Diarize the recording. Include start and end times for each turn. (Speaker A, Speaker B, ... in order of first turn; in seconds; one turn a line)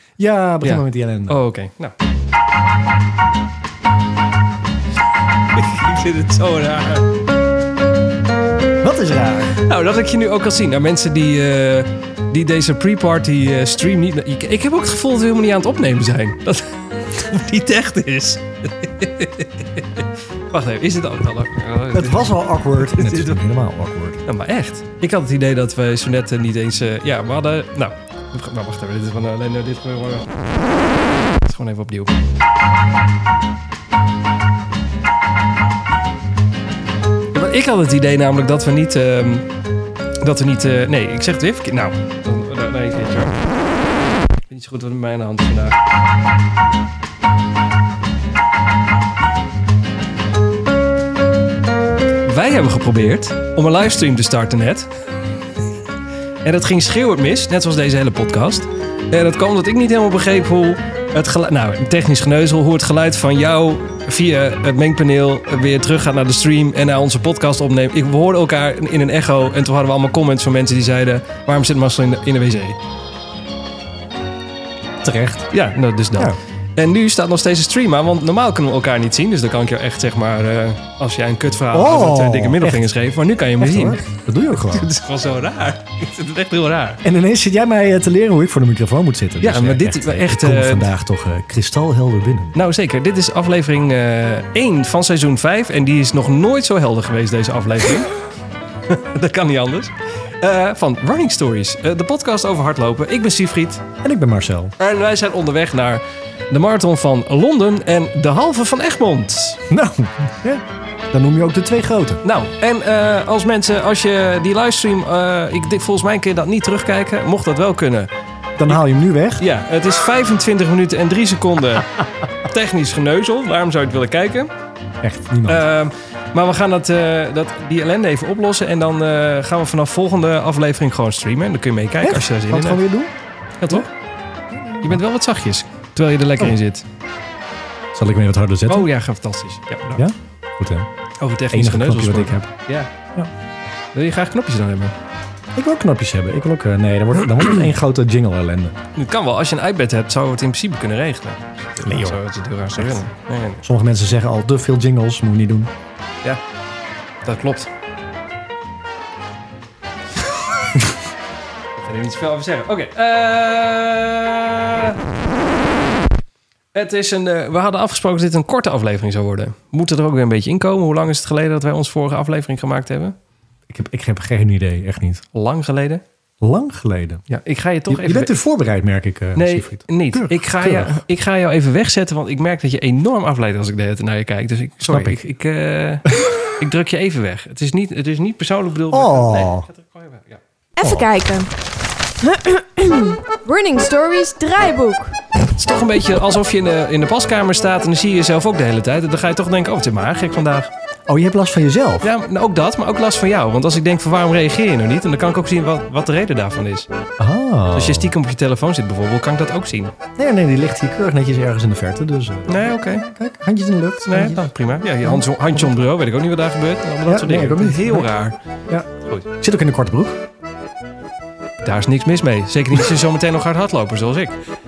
Speaker A: 0.2-1.4
Speaker B: 0.6-1.9
Speaker B: 5.5-7.1
Speaker A: 8.8-9.6
Speaker B: 9.6-23.4
Speaker A: 21.9-24.2
Speaker B: 24.2-30.5
Speaker B: 31.4-32.1
Speaker B: 37.3-39.5
Speaker B: 40.2-43.4
Speaker B: 44.5-45.8
Speaker B: 52.2-54.9
Speaker B: 56.4-72.8
Speaker A: 75.0-75.5
Speaker B: 75.5-87.0
Speaker A: 81.7-82.9
Speaker A: 83.6-84.9
Speaker A: 87.0-92.5
Speaker B: 89.4-90.9
Speaker B: 92.5-98.2
Speaker B: 98.9-103.8
Speaker A: 104.0-104.7
Speaker B: 104.8-109.6
Speaker A: 109.7-112.2
Speaker B: 112.2-118.1
Speaker A: 118.6-119.4
Speaker B: 119.4-124.5
Speaker A: 125.0-125.7
Speaker B: 125.5-132.8
Speaker A: 132.0-133.1
Speaker B: 133.6-133.9
Speaker A: 134.5-135.0
Speaker B: 134.8-136.8
Speaker A: 137.9-138.9
Speaker B: 138.7-140.0
Speaker A: 139.9-140.9
Speaker B: 141.2-142.9
Speaker A: 141.5-142.5
Speaker B: 143.9-144.9
Speaker A: 145.5-148.8
Speaker B: 148.9-153.6
Speaker A: 151.8-152.2
Speaker A: 153.6-155.7
Speaker B: 157.2-157.7
Speaker B: 161.8-165.0
Speaker B: 166.7-173.1
Speaker A: 173.7-175.2
Speaker B: 175.3-176.0
Speaker A: 176.4-177.2
Speaker B: 177.3-178.3
Speaker A: 177.9-181.0
Speaker B: 179.3-190.4
Speaker A: 184.9-185.2
Speaker A: 188.9-189.7
Speaker C: 190.8-191.5
Speaker A: 190.8-191.1
Speaker C: 192.2-195.2
Speaker B: 195.5-200.7
Speaker A: 201.1-202.1
Speaker B: 202.0-206.9
Speaker A: 207.2-208.1
Speaker B: 207.7-209.9
Speaker A: 210.2-215.8
Speaker B: 212.5-213.0
Speaker B: 214.1-218.4
Speaker A: 217.1-218.1
Speaker A: 218.7-220.2
Speaker B: 219.0-219.3
Speaker B: 221.6-224.4